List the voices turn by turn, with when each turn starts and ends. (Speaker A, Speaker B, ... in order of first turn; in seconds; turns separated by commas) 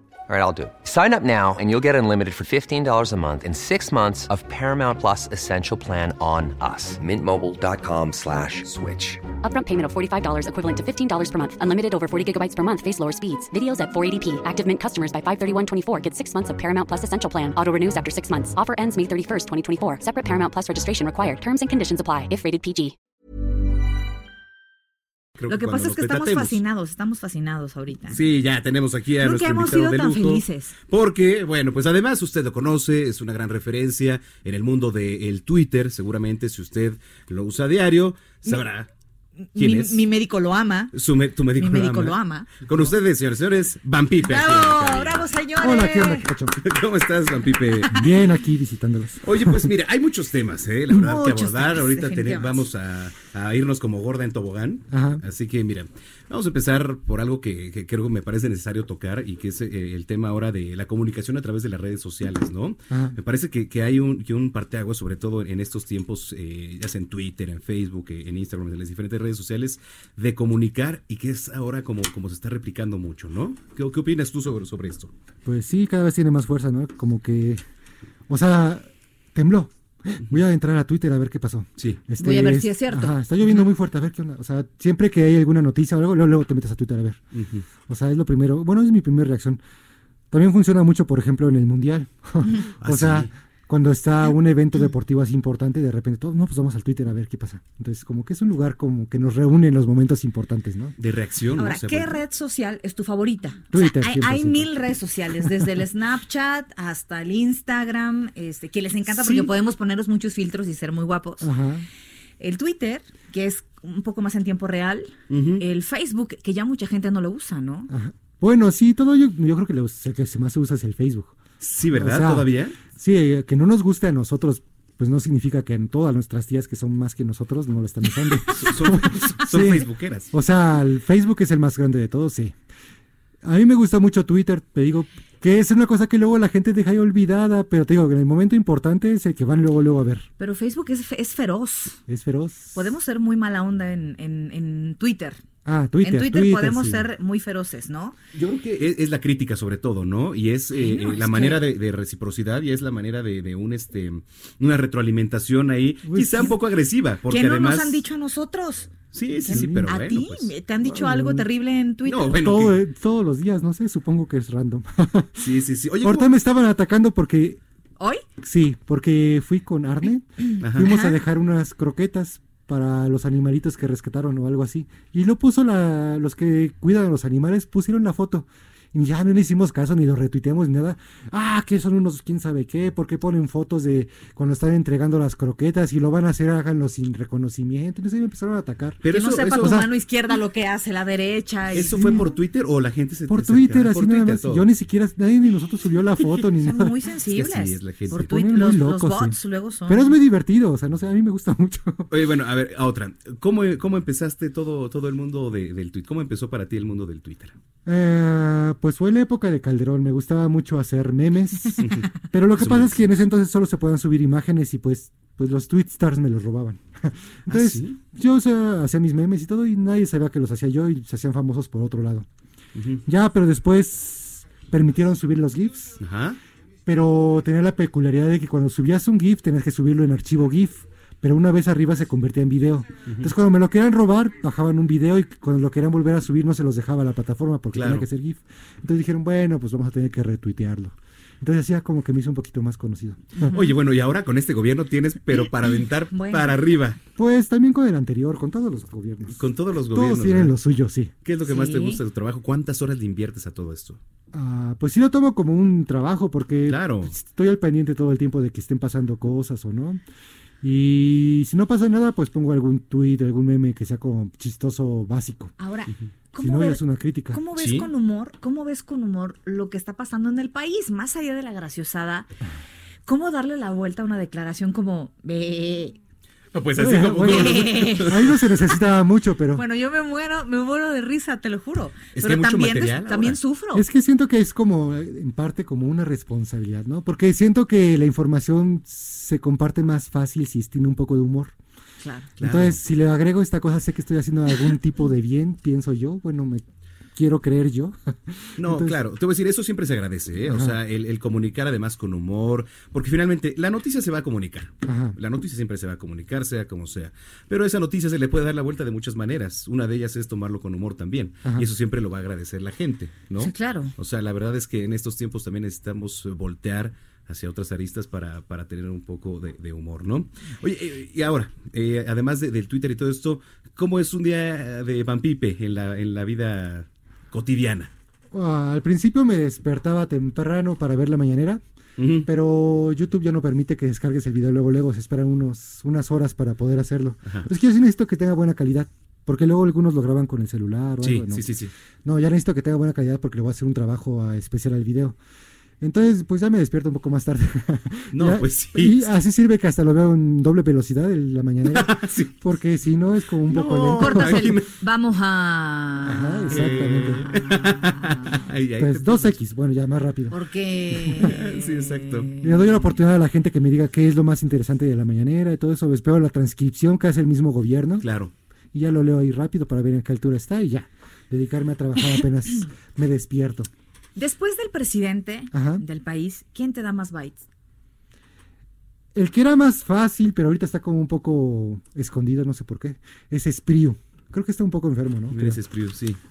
Speaker A: 0.3-9.3, Speaker B: 9.3-22.9, Speaker C: 25.4-26.6, Speaker D: 25.5-28.2, Speaker C: 28.1-38.9, Speaker D: 29.2-30.8, Speaker D: 39.5-40.9, Speaker C: 39.5-40.0, Speaker C: 40.9-45.3, Speaker D: 41.5-42.6, Speaker D: 44.2-46.3, Speaker E: 45.6-46.6, Speaker C: 46.6-48.1, Speaker E: 47.9-49.7, Speaker C: 49.2-75.1, Speaker D: 51.0-52.7, Speaker E: 54.9-55.2, Speaker E: 62.9-63.2, Speaker E: 75.4-77.6, Speaker E: 78.3-87.2, Speaker C: 81.8-82.0, Speaker D: 82.2-83.3, Speaker C: 87.3-87.7, Speaker E: 87.9-89.6, Speaker E: 90.3-100.9, Speaker C: 92.8-93.3, Speaker C: 101.0-102.2, Speaker D: 101.6-111.5, Speaker E: 103.7-104.7, Speaker C: 109.1-109.5, Speaker E: 111.4-111.8, Speaker D: 112.4-117.9, Speaker C: 115.3-115.6, Speaker E: 117.9-121.3, Speaker C: 121.6-122.8, Speaker E: 121.9-132.5, Speaker C: 128.5-130.3, Speaker E: 133.4-140.2, Speaker D: 140.4-142.0, Speaker E: 142.1-142.9, Speaker D: 142.7-145.4, Speaker E: 145.7-147.1, Speaker D: 146.0-148.2, Speaker C: 148.3-158.1, Speaker D: 150.7-151.6, Speaker E: 156.1-156.6, Speaker D: 157.3-162.4, Speaker C: 159.1-160.5, Speaker E: 159.5-159.9, Speaker E: 160.8-161.5, Speaker C: 162.1-162.8, Speaker E: 162.3-167.6, Speaker C: 165.4-166.3, Speaker D: 168.0-168.2, Speaker E: 168.4-189.0, Speaker D: 170.5-171.2, Speaker C: 170.6-170.9, Speaker C: 189.0-189.9, Speaker D: 189.1-192.2, Speaker E: 189.5-189.8, Speaker C: 191.7-194.7, Speaker E: 191.8-192.3, Speaker E: 193.3-196.9, Speaker D: 196.6-200.1, Speaker C: 197.2-198.3, Speaker E: 198.1-202.1, Speaker C: 202.1-207.6, Speaker E: 207.8-222.2, Speaker C: 211.8-213.2, Speaker C: 217.5-218.0, Speaker C: 222.8-223.0, Speaker E: 223.1-226.0, Speaker C: 226.0-226.4, Speaker E: 226.9-243.6, Speaker C: 233.1-233.3, Speaker C: 237.7-238.1, Speaker C: 243.5-247.0, Speaker D: 246.1-246.6, Speaker E: 247.2-251.1, Speaker C: 249.3-250.6, Speaker C: 251.2-254.0, Speaker D: 251.4-252.0, Speaker E: 254.3-260.0, Speaker C: 256.7-257.1, Speaker E: 260.6-265.5, Speaker D: 265.6-272.3, Speaker E: 266.4-267.4, Speaker C: 267.6-267.9, Speaker D: 273.1-276.0, Speaker C: 276.5-278.4, Speaker E: 276.8-279.6, Speaker D: 277.2-278.4, Speaker D: 279.5-283.9, Speaker C: 282.1-283.4, Speaker E: 283.7-291.5, Speaker D: 292.0-292.3, Speaker C: 292.4-292.8, Speaker E: 292.4-296.6, Speaker E: 297.1-299.0, Speaker C: 298.6-327.9, Speaker E: 300.5-300.8, Speaker E: 304.9-305.2, Speaker D: 313.4-313.9, Speaker E: 328.3-331.6, Speaker C: 332.0-332.3, Speaker E: 332.2-341.5, Speaker C: 341.0-341.7, Speaker E: 342.1-345.2, Speaker E: 345.8-354.6, Speaker C: 348.1-349.1, Speaker C: 351.7-352.3, Speaker C: 353.4-354.7, Speaker D: 354.0-356.7, Speaker E: 356.0-357.3, Speaker C: 356.5-359.4, Speaker D: 357.2-358.4, Speaker E: 358.8-360.4, Speaker D: 360.3-362.9, Speaker E: 360.9-361.3, Speaker C: 361.2-362.4, Speaker E: 362.4-368.1, Speaker C: 368.0-368.3, Speaker E: 368.7-373.7, Speaker D: 374.2-377.4, Speaker E: 375.5-375.8, Speaker E: 379.1-385.6, Speaker C: 385.3-386.2